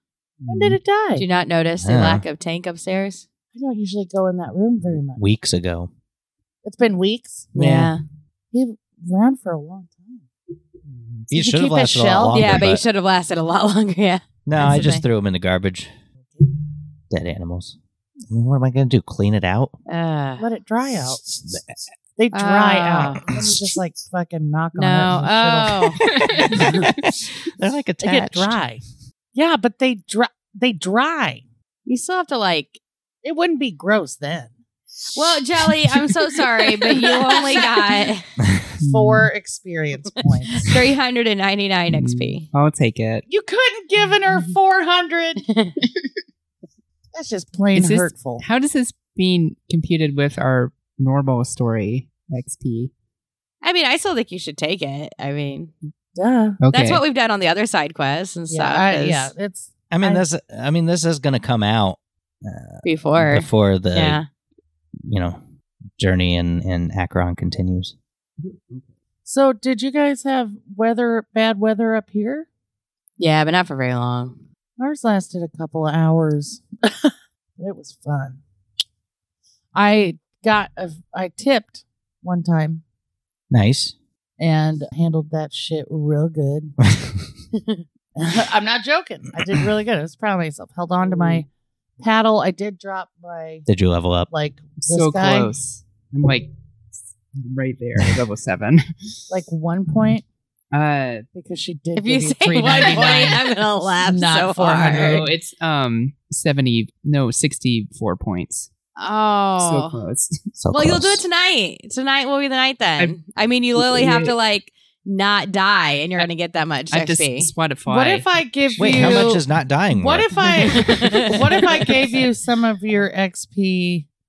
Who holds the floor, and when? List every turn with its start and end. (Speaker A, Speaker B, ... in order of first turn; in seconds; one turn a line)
Speaker A: 0.4-0.8
Speaker B: 0.5-1.2
Speaker C: 1.1-3.2
Speaker A: 1.8-2.2
Speaker B: 3.5-5.2
Speaker A: 5.2-5.9
Speaker B: 6.6-7.5
Speaker C: 7.5-8.0
Speaker A: 7.6-7.9
Speaker B: 8.5-10.2
Speaker A: 11.3-12.8
Speaker B: 11.3-12.6
Speaker C: 12.3-15.0
Speaker A: 14.5-15.9
Speaker B: 16.2-16.5
Speaker A: 17.1-17.8
Speaker A: 18.3-19.8
Speaker C: 19.9-20.4
Speaker B: 20.4-21.2
Speaker B: 22.1-26.9
Speaker C: 22.3-23.2
Speaker C: 24.7-26.0
Speaker D: 26.1-26.9
Speaker A: 26.1-28.6
Speaker B: 28.0-28.8
Speaker B: 29.3-31.4
Speaker C: 31.9-32.8
Speaker B: 33.2-34.5
Speaker C: 35.1-38.2
Speaker D: 38.8-39.3
Speaker B: 38.8-40.5
Speaker C: 40.5-42.5
Speaker D: 41.9-43.2
Speaker B: 43.3-45.4
Speaker C: 45.4-45.9
Speaker B: 47.1-48.5
Speaker D: 47.7-52.9
Speaker C: 53.6-55.7
Speaker B: 56.1-56.6
Speaker D: 56.6-57.0
Speaker C: 56.7-59.3
Speaker B: 58.5-60.3
Speaker A: 59.9-64.2
Speaker C: 62.8-64.2
Speaker A: 65.1-65.4
Speaker A: 66.0-67.9
Speaker D: 68.4-68.9
Speaker B: 69.2-72.5
Speaker C: 73.2-74.3
Speaker B: 74.8-78.4
Speaker B: 79.7-82.8
Speaker A: 83.5-83.9
Speaker B: 84.4-86.8
Speaker B: 88.2-91.5
Speaker D: 91.1-91.4
Speaker B: 92.0-93.7
Speaker A: 93.7-94.3
Speaker B: 94.3-95.5
Speaker D: 94.8-96.5
Speaker D: 97.3-98.8
Speaker B: 99.3-100.2
Speaker D: 100.7-101.2
Speaker B: 101.3-103.4
Speaker C: 102.0-105.2
Speaker B: 104.0-105.3
Speaker D: 104.9-108.7
Speaker C: 109.0-110.0
Speaker D: 109.6-110.3
Speaker A: 110.6-111.2
Speaker C: 110.7-117.5
Speaker D: 113.8-114.3
Speaker D: 116.9-118.3
Speaker B: 117.9-124.1
Speaker A: 118.8-120.3
Speaker D: 118.9-119.2
Speaker C: 120.8-121.5